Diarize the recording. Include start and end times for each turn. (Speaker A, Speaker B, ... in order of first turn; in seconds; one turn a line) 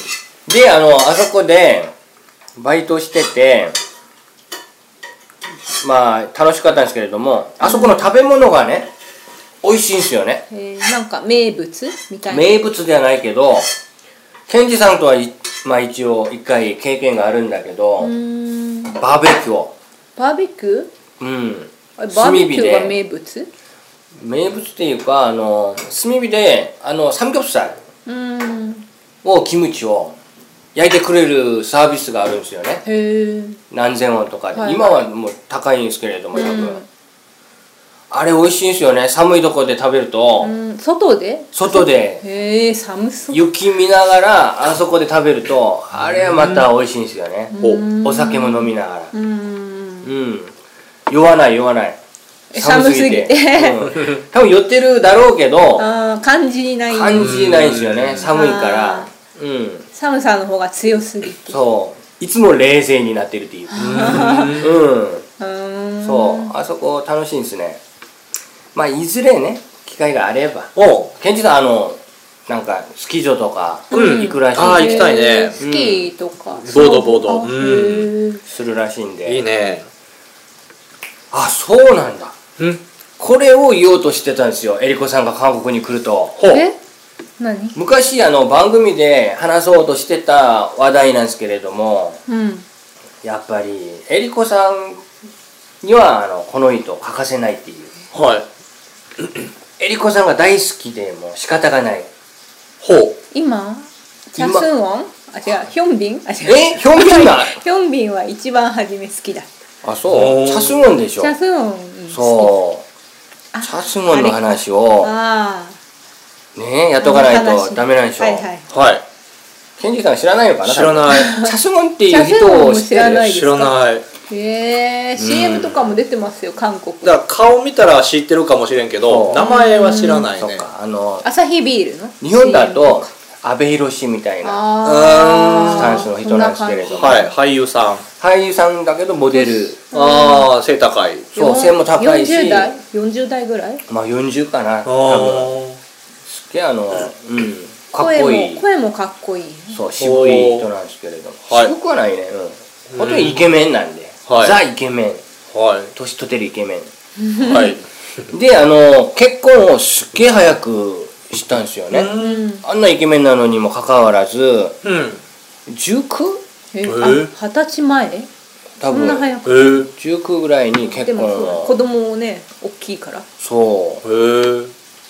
Speaker A: 0.5-1.9
Speaker A: 2.6-3.8
Speaker A: 5.8-8.9
Speaker B: 7.6-8.1
Speaker A: 9.6-10.4
Speaker B: 10.5-12.6
Speaker A: 12.3-13.7
Speaker A: 14.5-18.1
Speaker B: 18.0-18.9
Speaker A: 18.9-19.7
Speaker B: 20.2-20.9
Speaker A: 21.2-23.0
Speaker B: 22.0-23.5
Speaker A: 24.2-27.8
Speaker B: 28.1-28.9
Speaker A: 29.2-30.2
Speaker A: 30.8-32.8
Speaker B: 32.9-33.6
Speaker A: 33.7-36.8
Speaker B: 34.5-35.0
Speaker B: 36.3-36.9
Speaker A: 38.1-40.6
Speaker B: 40.4-43.5
Speaker A: 41.5-42.2
Speaker A: 43.3-49.1
Speaker C: 46.0-46.6
Speaker B: 47.5-50.1
Speaker A: 50.0-50.5
Speaker A: 51.1-52.0
Speaker B: 52.5-54.0
Speaker A: 52.5-55.9
Speaker B: 55.8-57.5
Speaker A: 56.9-59.9
Speaker C: 57.2-58.3
Speaker B: 58.2-59.1
Speaker B: 59.9-61.6
Speaker A: 61.5-65.3
Speaker B: 63.7-64.6
Speaker C: 63.8-64.8
Speaker B: 65.4-66.5
Speaker A: 66.0-67.8
Speaker A: 68.7-76.1
Speaker C: 70.8-71.1
Speaker B: 73.9-78.4
Speaker C: 73.9-75.6
Speaker C: 76.6-78.1
Speaker A: 78.5-79.4
Speaker C: 79.3-79.9
Speaker A: 81.3-82.4
Speaker A: 83.2-86.4
Speaker C: 86.4-86.7
Speaker B: 86.5-86.8
Speaker B: 87.4-87.8
Speaker A: 87.8-92.2
Speaker B: 92.3-92.7
Speaker A: 93.2-95.1
Speaker A: 95.8-97.9
Speaker C: 98.1-98.5
Speaker A: 99.8-102.1
Speaker C: 102.8-103.2
Speaker B: 103.3-109.5
Speaker A: 104.4-104.7
Speaker A: 106.5-107.6
Speaker A: 109.8-111.3
Speaker C: 110.1-110.9
Speaker B: 111.2-112.5
Speaker A: 112.1-112.8
Speaker B: 113.5-115.8
Speaker A: 113.6-115.1
Speaker A: 116.6-118.5
Speaker B: 117.0-118.7
Speaker C: 118.7-119.0
Speaker A: 119.8-123.3
Speaker C: 120.6-121.4
Speaker B: 121.1-121.5
Speaker B: 122.1-123.8
Speaker C: 123.1-124.0
Speaker B: 124.3-127.2
Speaker A: 125.2-125.9
Speaker C: 127.0-130.7
Speaker A: 129.0-129.5
Speaker B: 129.3-130.3
Speaker A: 130.3-131.3
Speaker B: 131.2-133.1
Speaker A: 132.2-134.6
Speaker B: 134.4-137.3
Speaker C: 134.8-136.0
Speaker A: 135.6-137.2
Speaker C: 136.9-138.0
Speaker A: 138.2-139.8
Speaker B: 139.3-140.5
Speaker C: 139.9-141.3
Speaker B: 141.3-143.8
Speaker A: 141.4-142.7
Speaker A: 143.9-145.6
Speaker C: 144.8-145.8
Speaker A: 146.3-148.6
Speaker B: 147.9-149.8
Speaker A: 149.7-155.2
Speaker C: 150.0-150.7
Speaker C: 151.5-151.7
Speaker C: 152.9-153.4
Speaker C: 154.3-154.6
Speaker C: 155.5-155.9
Speaker A: 155.9-156.9
Speaker B: 157.2-157.8
Speaker C: 157.4-157.8
Speaker A: 158.3-164.8
Speaker C: 161.9-162.5
Speaker B: 162.2-162.7
Speaker C: 164.8-165.2
Speaker A: 165.7-166.4
Speaker B: 166.7-168.3
Speaker C: 166.9-167.3
Speaker A: 168.8-169.3
Speaker B: 168.8-169.8
Speaker C: 169.4-169.9
Speaker A: 169.9-171.8
Speaker B: 170.8-173.3
Speaker A: 173.4-174.0
Speaker C: 174.0-174.7